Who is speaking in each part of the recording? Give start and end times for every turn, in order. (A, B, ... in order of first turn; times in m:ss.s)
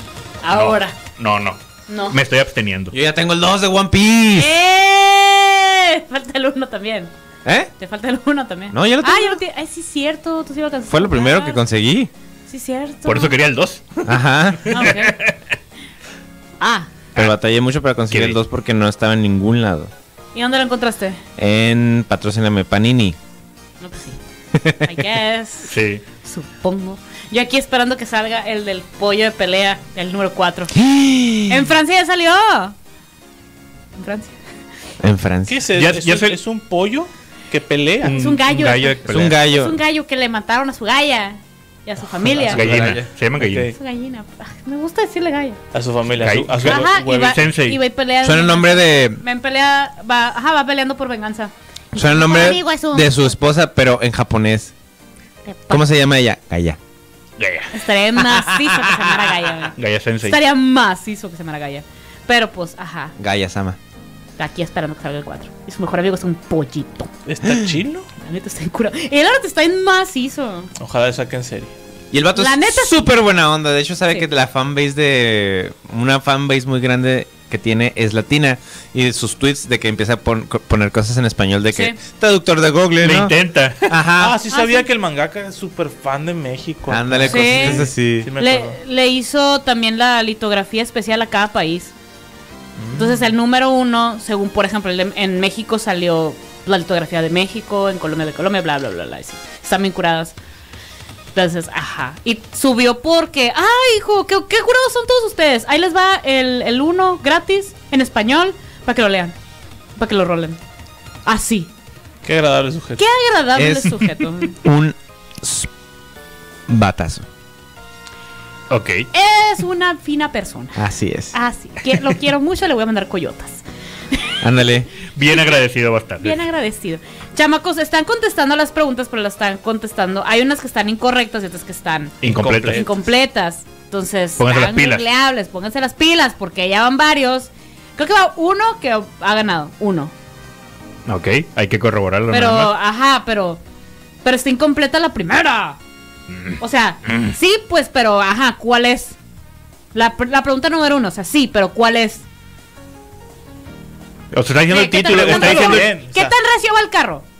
0:00.4-0:01.0 A
0:00.5-0:02.9 B
0:01.9-0:02.2 A
0:02.9-0:04.5 C
0:04.3-0:07.1 A
0:07.4-0:07.7 C
0:07.8-0:11.6 A
0:08.7-0:09.4 C
0:10.9-0:12.1 C
0:12.5-0:13.3 A
0:13.0-0:14.1 B
0:14.0-0:14.8 C
0:14.6-0:15.3 B
0:14.7-0:15.2 A
0:16.6-0:16.9 A
0:17.1-0:19.9 C
0:18.1-0:18.4 B
0:20.3-0:21.2 A
0:21.4-0:23.2 C
0:23.8-0:24.2 A
0:24.5-0:25.0 C
0:24.8-0:30.7 A
0:25.7-0:26.0 B
0:30.7-0:31.7 C
0:31.5-0:32.7 A
0:34.0-0:34.4 A
0:35.0-0:35.6 C
0:35.5-0:38.2 D
0:35.7-0:36.4 B
0:38.0-0:39.4 B
0:38.0-0:42.6 A
0:39.1-0:39.8 C
0:42.2-0:43.7 D
0:42.5-0:43.7 B
0:42.6-0:43.0 C
0:43.7-0:45.6 A
0:45.7-0:47.4 D
0:46.2-0:47.8 B
0:46.6-0:53.3 A
0:48.2-0:49.2 C
0:51.9-0:54.7 C
0:55.4-0:55.8 A
0:55.7-0:56.8 C
0:57.4-0:57.8 B
0:57.7-1:03.1 A
0:59.7-1:00.4 B
1:03.2-1:03.8 C
1:04.4-1:07.1 A
1:07.2-1:08.1 D
1:08.2-1:10.7 A
1:10.8-1:11.7 D
1:12.1-1:23.3 C
1:12.3-1:13.1 A
1:21.7-1:22.0 A
1:23.0-1:24.0 B
1:23.8-1:24.4 C
1:24.2-1:28.8 D
1:24.5-1:24.9 A
1:26.9-1:28.3 C
1:27.3-1:31.9 A
1:32.8-1:33.3 D
1:32.9-1:40.3 A
1:41.3-1:49.3 A
1:50.0-1:50.6 A
1:51.2-1:51.7 A
1:52.2-1:53.0 D
1:53.0-1:54.6 A
1:53.5-1:54.0 C
1:54.6-1:55.7 C
1:56.7-1:57.2 C
1:58.7-1:59.1 B
1:59.1-2:00.8 A
2:00.8-2:01.3 C
2:01.3-2:04.4 A
2:04.4-2:04.9 C
2:05.1-2:06.4 B
2:06.2-2:20.1 A
2:12.2-2:12.9 B
2:12.2-2:13.0 D
2:14.4-2:15.0 B
2:21.0-2:22.7 B
2:22.3-2:23.6 A
2:24.2-2:25.8 A
2:26.6-2:29.2 A
2:29.9-2:32.2 A
2:34.3-2:35.9 B
2:34.7-2:37.2 A
2:35.1-2:36.3 D